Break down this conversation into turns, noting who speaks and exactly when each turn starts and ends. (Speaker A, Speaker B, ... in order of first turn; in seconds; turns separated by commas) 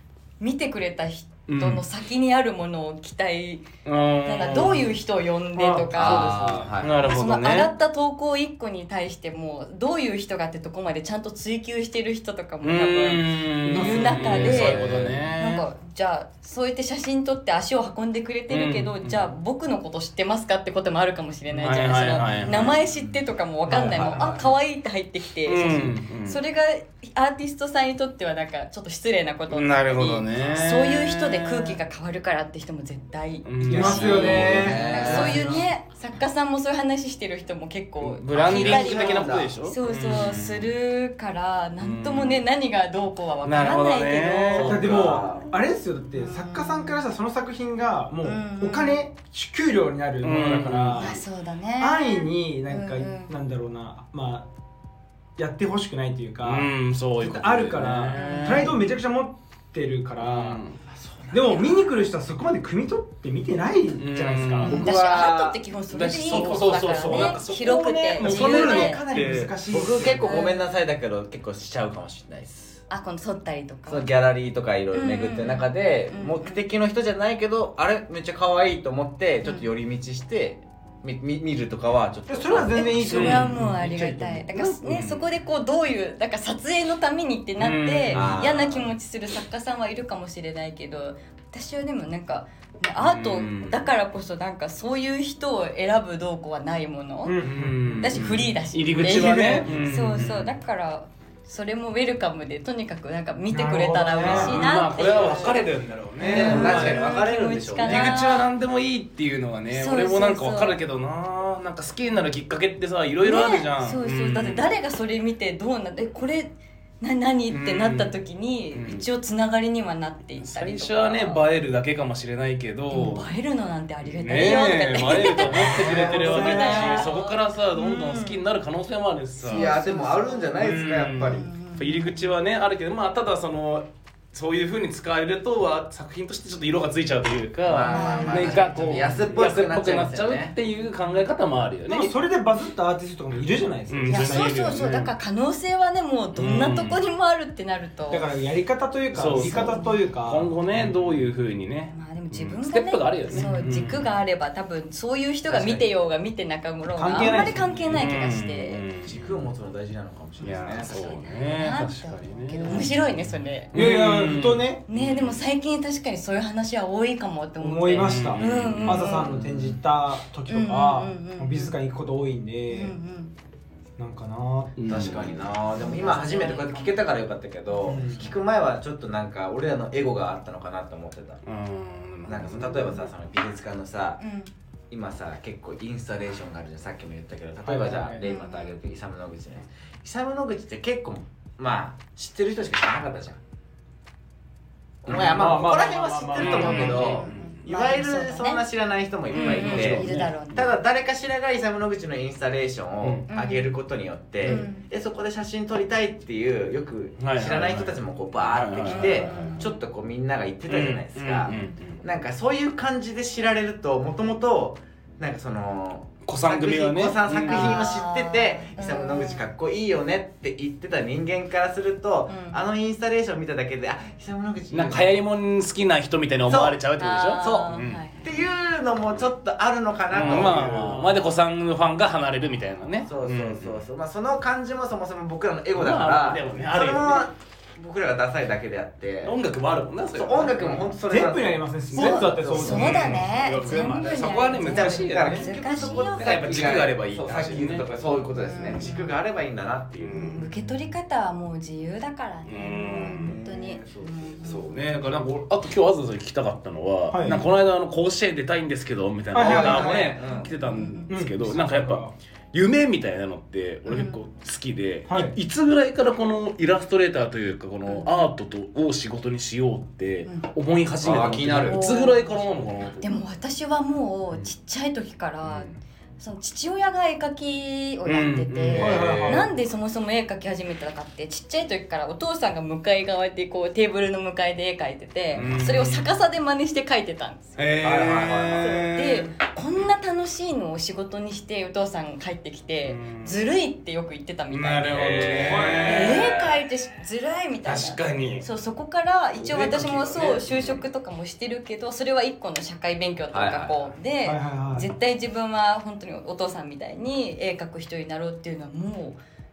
Speaker A: 0.4-3.7, Speaker B: 1.5-1.8, Speaker B: 3.8-4.9, Speaker A: 4.2-6.4, Speaker C: 5.6-6.7, Speaker B: 5.9-7.7, Speaker D: 5.9-7.0, Speaker A: 7.0-45.0, Speaker B: 12.6-15.6, Speaker C: 13.7-14.6, Speaker D: 14.2-15.2, Speaker B: 18.5-19.3, Speaker B: 21.5-22.8, Speaker B: 23.7-24.4, Speaker D: 24.0-24.4, Speaker B: 25.4-26.4, Speaker B: 29.5-31.8, Speaker D: 30.3-30.7, Speaker B: 33.4-35.6, Speaker C: 33.6-35.6, Speaker D: 33.8-35.6, Speaker B: 38.0-40.7, Speaker D: 38.3-39.5, Speaker B: 41.8-42.4, Speaker B: 43.4-44.8, Speaker C: 44.5-51.2, Speaker D: 44.5-45.5, Speaker A: 46.2-47.0, Speaker A: 48.2-49.0, Speaker B: 50.2-51.2, Speaker A: 50.9-53.3, Speaker C: 51.8-54.5, Speaker C: 55.4-60.6, Speaker B: 56.4-58.8, Speaker A: 58.1-58.8, Speaker B: 60.2-60.8, Speaker D: 60.9-61.8, Speaker C: 61.3-64.8, Speaker B: 64.0-64.9, Speaker A: 64.6-69.0, Speaker D: 64.6-65.6, Speaker B: 65.9-69.5, Speaker D: 66.3-66.8, Speaker C: 68.1-70.4, Speaker D: 69.7-72.8, Speaker A: 70.2-70.7, Speaker A: 72.9-74.1, Speaker D: 73.9-83.3, Speaker A: 74.9-76.6, Speaker C: 82.3-84.4, Speaker A: 82.6-97.4, Speaker B: 83.0-85.3, Speaker B: 87.6-88.5, Speaker D: 88.1-88.9, Speaker B: 93.0-93.8, Speaker C: 97.2-98.3, Speaker B: 97.4-100.5, Speaker A: 98.0-105.6, Speaker C: 98.9-99.9, Speaker C: 103.5-104.8, Speaker B: 104.2-107.0, Speaker D: 104.9-105.7, Speaker D: 106.2-108.2, Speaker A: 106.2-108.5, Speaker C: 106.2-107.0, Speaker B: 107.8-114.7, Speaker A: 109.7-110.8, Speaker A: 113.2-121.5, Speaker B: 117.5-118.2, Speaker B: 118.7-119.0, Speaker B: 120.4-123.3, Speaker A: 122.9-128.4, Speaker B: 124.0-129.8, Speaker C: 125.5-127.1, Speaker A: 129.4-132.3, Speaker D: 129.4-131.5, Speaker B: 130.6-142.1, Speaker D: 137.6-140.5, Speaker A: 137.9-139.2, Speaker C: 141.9-144.5, Speaker B: 143.9-145.1, Speaker A: 144.1-148.3, Speaker B: 146.3-147.0, Speaker C: 148.1-151.1, Speaker B: 149.1-154.1, Speaker A: 149.4-150.0, Speaker A: 151.9-158.8, Speaker C: 153.3-153.7, Speaker D: 155.5-155.9, Speaker C: 156.9-158.0, Speaker B: 157.2-159.4, Speaker D: 159.1-161.2, Speaker A: 160.4-163.7, Speaker B: 160.4-165.4, Speaker C: 163.7-164.8, Speaker A: 164.9-169.3, Speaker C: 167.6-173.0, Speaker B: 167.9-169.3, Speaker D: 169.2-169.7, Speaker A: 170.5-171.7, Speaker A: 172.7-173.3, Speaker C: 174.0-175.2, Speaker B: 174.8-175.4, Speaker D: 174.9-181.4, Speaker A: 175.7-177.1, Speaker A: 177.7-178.1, Speaker C: 177.8-178.3, Speaker B: 181.4-183.0, Speaker D: 182.3-184.2, Speaker A: 184.2-184.5, Speaker D: 184.9-193.4, Speaker C: 187.6-188.2, Speaker A: 188.2-188.8, Speaker D: 195.0-225.1, Speaker C: 195.1-197.0, Speaker B: 195.1-195.7, Speaker B: 196.3-197.6, Speaker A: 196.3-198.7, Speaker A: 199.3-200.7, Speaker B: 199.3-200.3, Speaker A: 203.3-203.7, Speaker A: 204.4-204.8, Speaker B: 207.2-209.6, Speaker A: 208.8-209.8, Speaker B: 210.7-212.0, Speaker B: 216.2-218.0, Speaker A: 217.4-219.4, Speaker A: 222.3-222.6, Speaker B: 224.7-228.0, Speaker D: 226.4-226.8, Speaker A: 227.0-228.2, Speaker D: 227.4-231.3, Speaker B: 230.1-233.8, Speaker D: 233.1-239.3, Speaker B: 235.7-237.3, Speaker B: 239.2-240.9, Speaker D: 240.1-250.3, Speaker C: 241.1-243.3, Speaker A: 241.9-246.6, Speaker B: 242.5-247.9, Speaker A: 248.3-249.1, Speaker B: 250.0-250.7, Speaker A: 250.1-254.7, Speaker B: 252.4-253.4, Speaker D: 253.2-254.7, Speaker B: 254.4-273.1, Speaker C: 257.1-257.4, Speaker A: 257.2-257.5, Speaker C: 259.3-260.0, Speaker D: 259.3-260.5, Speaker A: 260.2-261.1, Speaker C: 261.1-262.1, Speaker A: 263.9-264.2, Speaker C: 265.1-265.4, Speaker A: 267.9-268.3, Speaker D: 271.0-271.9, Speaker A: 271.6-287.6, Speaker B: 275.4-275.8, Speaker B: 278.0-279.4, Speaker D: 278.7-279.4, Speaker C: 278.8-279.4, Speaker D: 285.3-285.7, Speaker B: 285.3-286.1, Speaker B: 287.6-289.3, Speaker D: 287.8-288.8, Speaker A: 288.6-309.2, Speaker B: 292.8-293.4, Speaker B: 294.5-296.3, Speaker D: 294.9-296.6, Speaker B: 297.6-298.4, Speaker B: 299.4-300.8, Speaker D: 303.3-303.9, Speaker C: 304.2-304.9